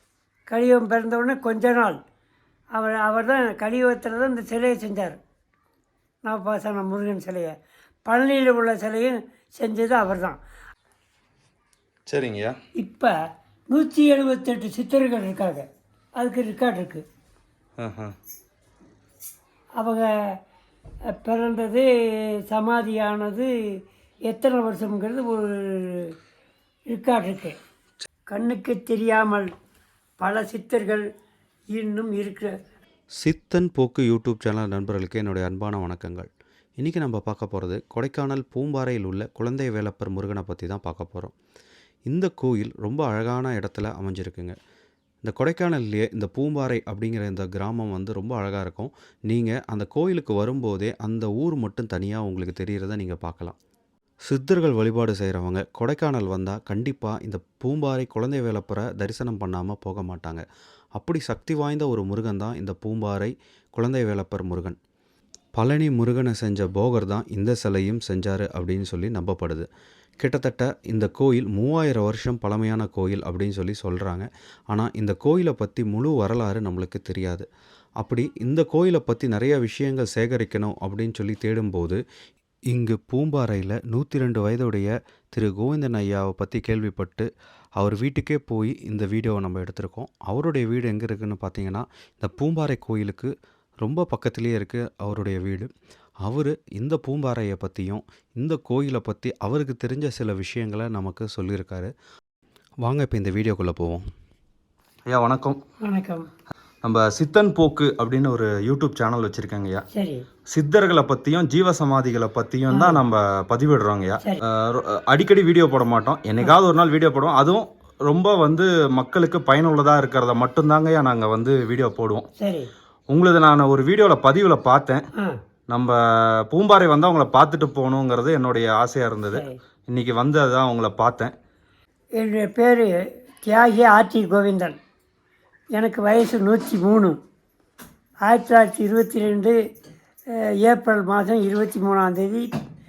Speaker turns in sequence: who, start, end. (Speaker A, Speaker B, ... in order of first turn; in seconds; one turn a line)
Speaker A: 0.5-2.0
Speaker A: 2.7-5.2
Speaker A: 6.2-7.5
Speaker A: 8.1-10.4
Speaker B: 12.1-12.5
Speaker A: 12.8-13.1
Speaker A: 13.7-15.7
Speaker A: 16.2-17.0
Speaker B: 17.8-18.1
Speaker A: 19.8-20.4
Speaker A: 21.1-21.9
Speaker A: 22.5-23.5
Speaker A: 24.3-26.1
Speaker A: 26.9-27.6
Speaker A: 28.3-29.5
Speaker A: 30.2-31.0
Speaker A: 31.7-32.5
Speaker C: 33.2-36.3
Speaker C: 36.8-41.3
Speaker C: 42.1-44.5
Speaker C: 45.2-53.6
Speaker C: 54.3-60.4
Speaker C: 61.0-64.7
Speaker C: 65.5-69.7
Speaker C: 70.2-77.4
Speaker C: 78.0-82.0
Speaker C: 82.7-87.3
Speaker C: 87.8-93.3
Speaker C: 93.8-95.7
Speaker C: 96.2-101.9
Speaker C: 102.8-104.0
Speaker B: 105.1-105.6
Speaker A: 105.8-106.3
Speaker B: 106.8-109.8
Speaker A: 109.9-110.2
Speaker B: 110.5-122.3
Speaker A: 112.7-113.0
Speaker A: 122.4-122.7
Speaker B: 123.1-125.0
Speaker B: 125.7-131.3
Speaker A: 129.3-129.6
Speaker A: 132.2-132.9
Speaker A: 133.4-134.8
Speaker A: 135.7-137.2
Speaker A: 138.2-139.6
Speaker A: 140.3-142.5